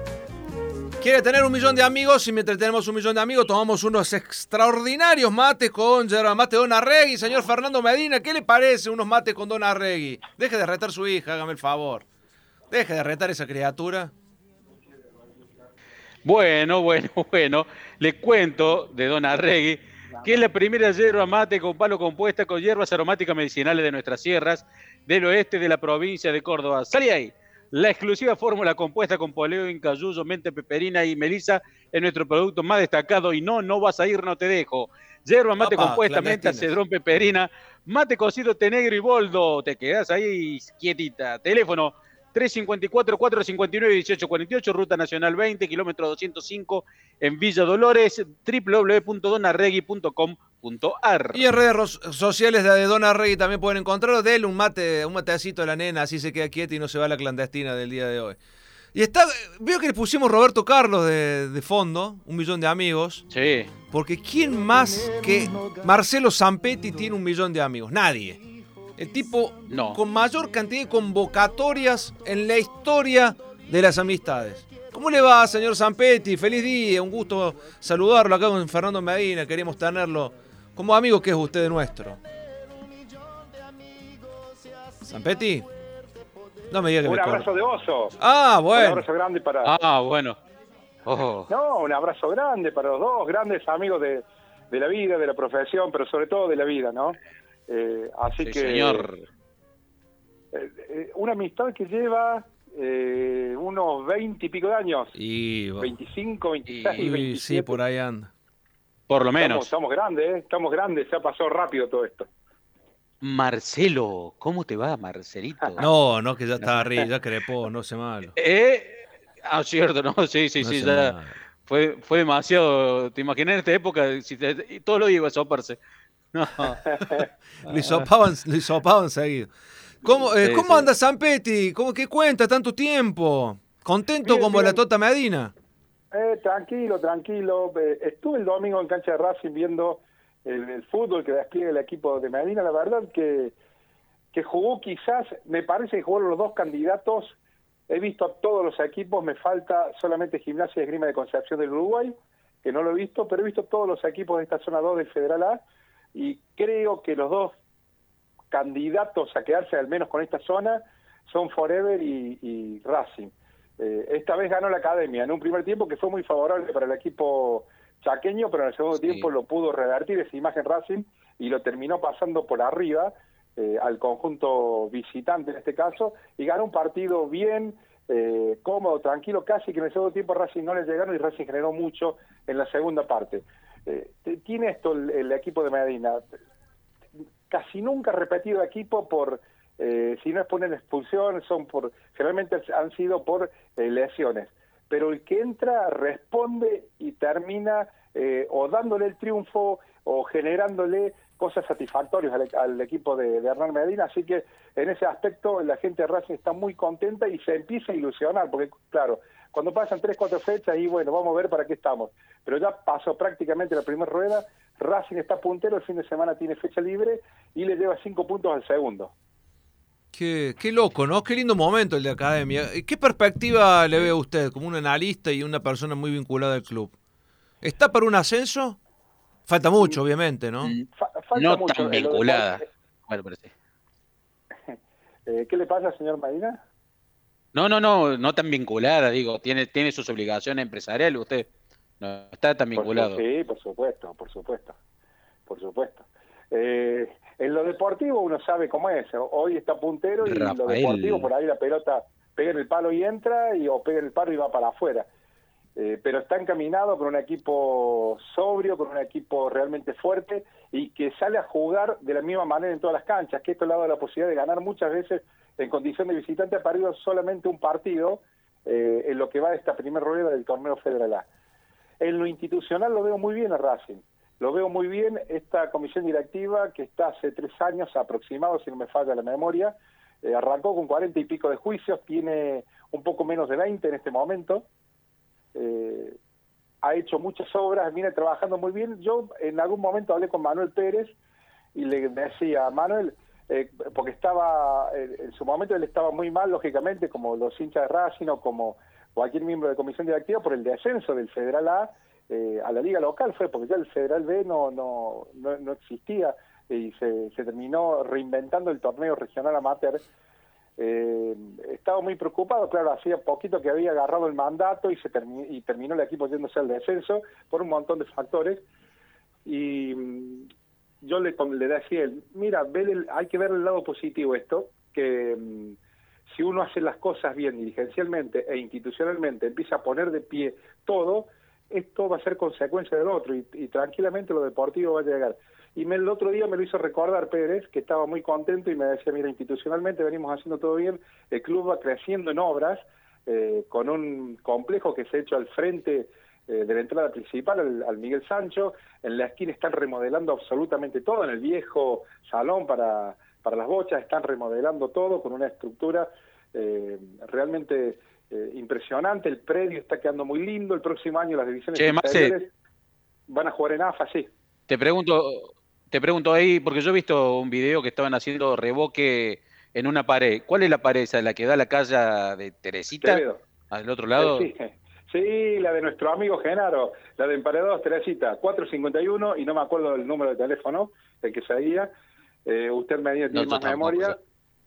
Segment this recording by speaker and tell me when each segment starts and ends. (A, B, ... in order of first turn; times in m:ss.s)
0:01.0-0:12.0 A
0:12.7-0:14.1 A
0:16.2-0:51.4 B
0:35.6-0:36.8 A
0:51.3-0:58.4 A
0:58.9-1:03.2 A
1:03.3-1:03.7 B
1:03.9-1:08.4 A
1:09.0-1:22.2 A
1:09.7-1:10.0 B
1:25.0-1:25.7 A
1:26.7-1:27.5 A
1:27.0-1:28.2 C
1:28.2-1:29.1 A
1:28.7-1:29.7 C
1:29.6-1:30.4 B
1:31.1-1:31.5 B
1:31.5-1:37.2 C
1:37.7-1:39.1 C
1:38.4-1:39.2 B
1:40.5-1:45.1 C
1:45.2-1:45.9 A
1:45.8-1:47.8 C
1:46.7-1:47.2 B
1:46.9-1:48.3 A
1:49.1-1:49.7 B
1:49.4-1:52.3 C
1:53.2-1:55.9 B
1:55.8-1:58.3 A
1:56.6-1:57.0 B
1:58.4-2:01.2 B
2:00.6-2:01.4 A
2:01.7-2:05.8 B
2:06.3-2:07.1 B
2:06.9-2:07.2 C
2:07.7-2:09.5 A
2:07.7-2:08.1 B
2:10.0-2:15.5 A
2:10.3-2:10.9 B
2:14.2-2:14.8 C
2:16.1-2:23.6 C
2:24.3-2:27.4 C
2:27.9-2:35.6 C
2:36.2-2:37.5 C
2:38.5-3:06.3 C
2:49.0-2:49.3 B
3:07.5-3:39.1 C
3:40.1-3:47.0 A
3:47.6-3:48.8 A
3:49.5-3:50.7 A
3:50.6-3:53.5 B
3:51.0-3:52.7 C
3:54.7-3:56.6 C
3:57.5-4:01.5 B
4:02.0-4:03.2 B
4:02.8-4:04.8 C
4:05.5-4:15.1 C
4:10.2-4:11.3 B
4:15.8-4:31.3 C
4:32.0-4:44.7 C
4:45.6-4:46.2 C
4:46.8-4:51.2 C
4:51.8-5:10.0 C
5:10.8-5:18.6 C
5:19.5-5:20.5 C
5:21.0-5:25.8 C
5:26.3-6:02.5 C
6:01.8-6:02.3 B
6:03.3-6:04.3 C
6:04.7-6:14.5 B
6:12.9-6:13.4 C
6:14.2-6:21.9 C
6:22.5-6:24.2 C
6:23.3-6:24.2 B